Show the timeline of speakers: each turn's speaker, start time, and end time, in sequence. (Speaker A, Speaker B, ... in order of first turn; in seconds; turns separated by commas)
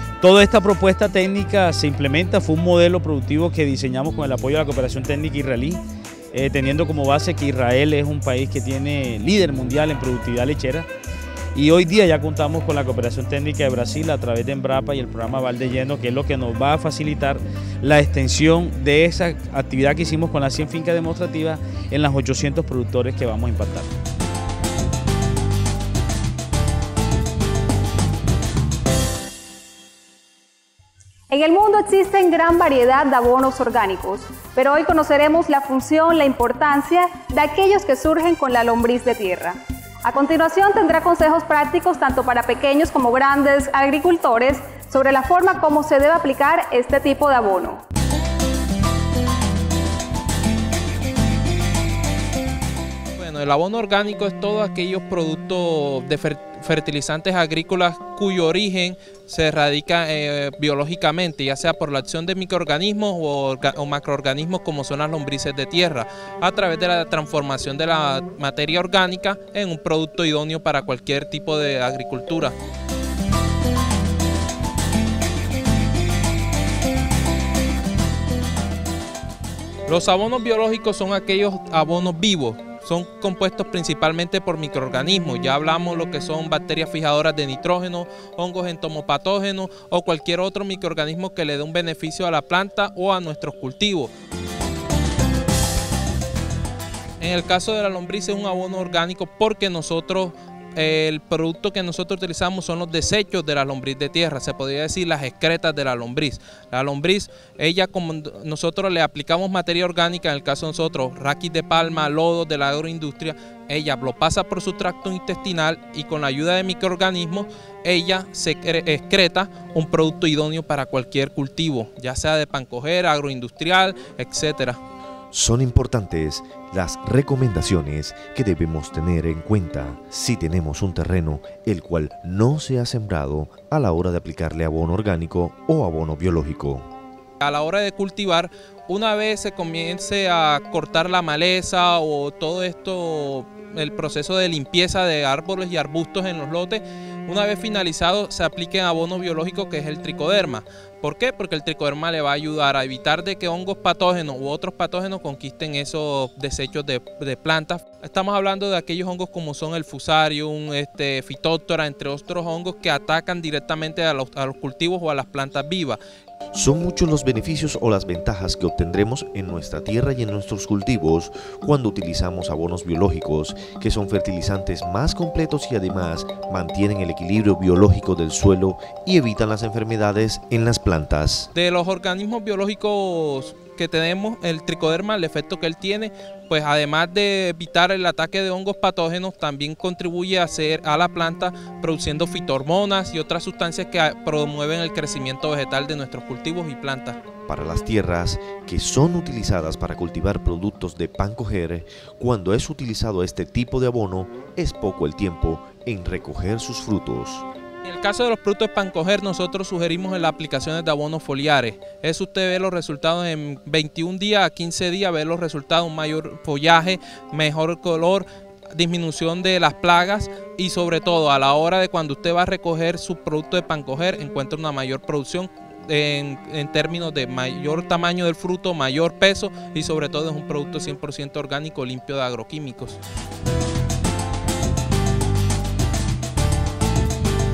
Speaker A: 0.2-10.9, Speaker A: 11.6-23.9, Speaker B: 31.3-47.8, Speaker C: 53.2-72.5, Speaker C: 79.9-94.1, Speaker C: 97.2-124.8, Speaker D: 125.3-136.9, Speaker C: 137.4-166.0, Speaker D: 166.5-181.5, Speaker C: 181.6-197.2, Speaker D: 197.5-207.5, Speaker C: 207.8-233.0